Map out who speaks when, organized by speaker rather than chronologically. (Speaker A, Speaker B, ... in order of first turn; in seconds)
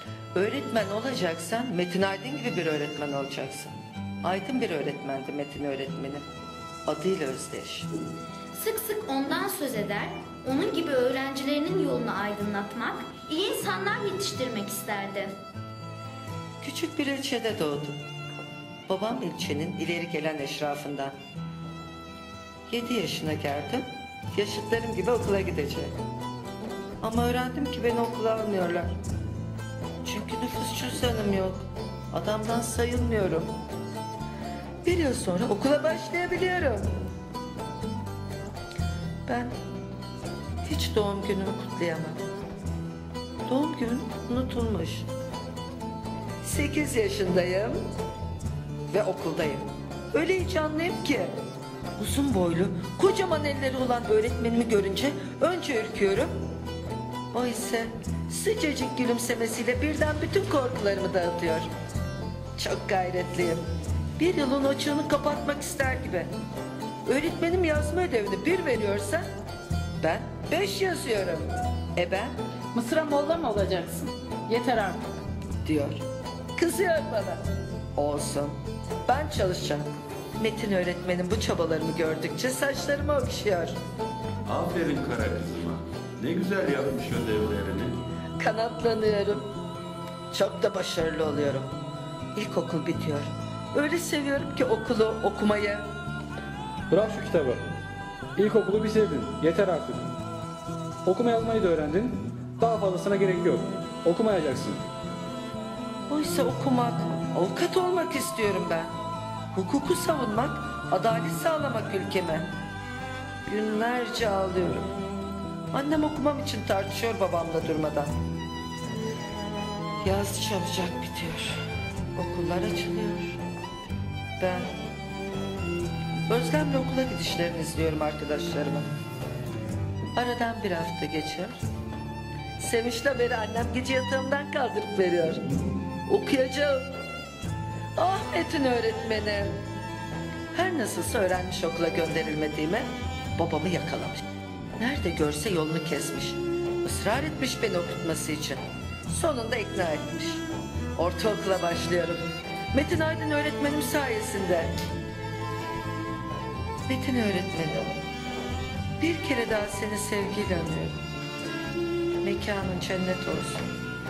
Speaker A: 0.3-6.2, 6.8-7.9, 16.6-18.0, 18.9-21.1, 22.7-25.9, 27.0-29.0, 30.0-33.5, 34.8-36.9, 39.2-39.6, 40.6-42.2, 43.5-45.1, 46.4-47.8, 48.9-51.3, 52.0-56.4, 57.3-61.7, 62.6-63.6, 64.2-66.3, 67.0-69.3, 70.0-72.3, 75.6-76.0, 76.5-77.5, 78.0-83.8, 88.4-89.5, 90.3-91.7, 92.3-95.8, 106.1-108.9, 109.5-112.5, 113.5-114.9, 115.7-118.1, 120.0-123.4, 124.4-124.7, 126.3-128.9, 130.1-131.6, 132.6-135.4, 136.1-136.9, 137.9-139.6, 140.5-144.2, 144.8-154.7, 156.9-157.9, 159.0-161.0, 162.2-163.7
Speaker B: 8.5-15.4
Speaker C: 72.7-75.0
Speaker D: 84.4-88.0
Speaker E: 96.9-97.6, 98.3-100.1, 101.0-104.8